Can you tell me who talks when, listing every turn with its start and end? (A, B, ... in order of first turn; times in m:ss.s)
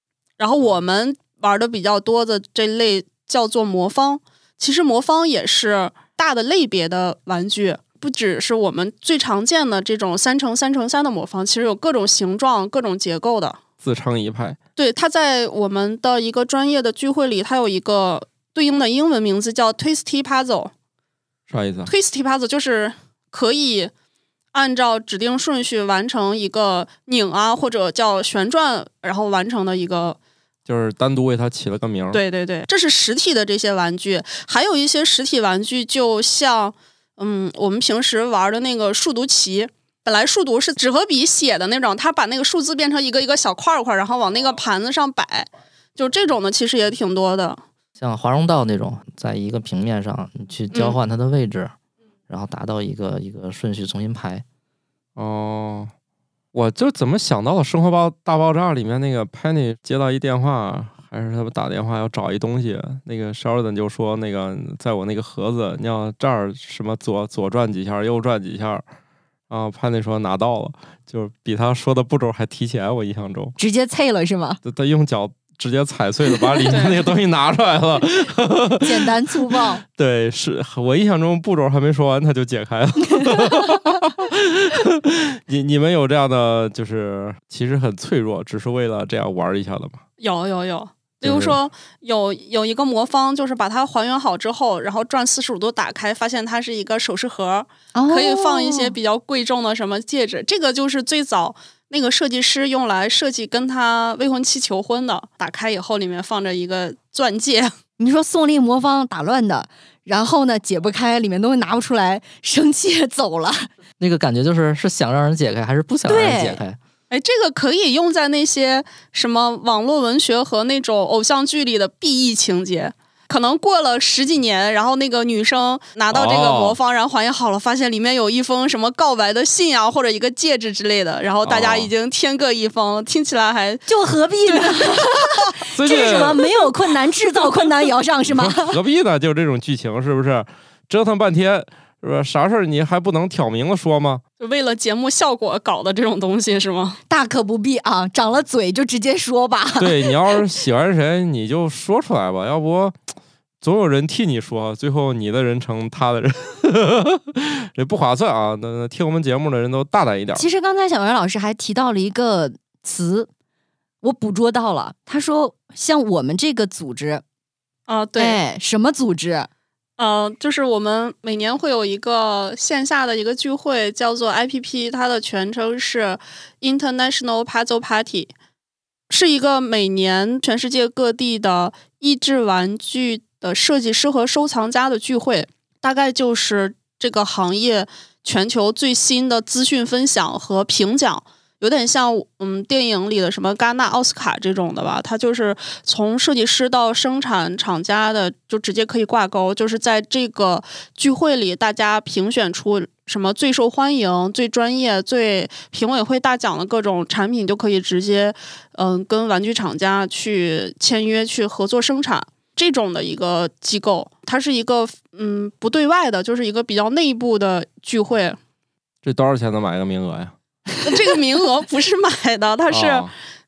0:00.4-0:13.6 A
0:13.8-0:14.6 B
0:14.8-0:20.7 A
0:21.5-0:21.9 B
0:21.8-0:23.9 A
0:24.5-0:30.2 A
0:30.7-0:32.2 B
0:32.1-0:47.6 A
0:48.0-0:51.7 C
0:50.7-0:51.0 A
0:52.3-0:54.4 C
0:55.2-0:55.9 B
0:56.5-1:08.8 B
1:09.5-1:13.6 B
1:13.6-1:14.6 D
1:14.6-1:30.0 B
1:16.7-1:17.0 A
1:18.8-1:19.8 D
1:30.2-1:47.7 A
1:31.2-1:31.6 B
1:37.9-1:38.9 D
1:48.0-1:53.7 D
1:54.0-1:56.8 C
1:56.1-1:56.6 D
1:57.1-2:13.8 A
2:06.1-2:06.8 B
2:11.4-2:11.9 B
2:13.9-2:18.8 D
2:14.4-2:15.5 A
2:15.7-2:16.4 B
2:18.3-2:24.2 B
2:24.4-2:27.0 A
2:27.1-2:30.1 D
2:29.8-2:33.0 B
2:33.6-2:40.5 B
2:40.3-2:43.3 D
2:44.0-2:47.2 D
2:47.9-2:48.4 A
2:48.2-2:49.5 D
2:50.0-2:58.3 A
2:59.1-3:38.4 A
3:39.0-3:40.3 B
3:40.8-3:43.1 A
3:42.7-3:43.1 B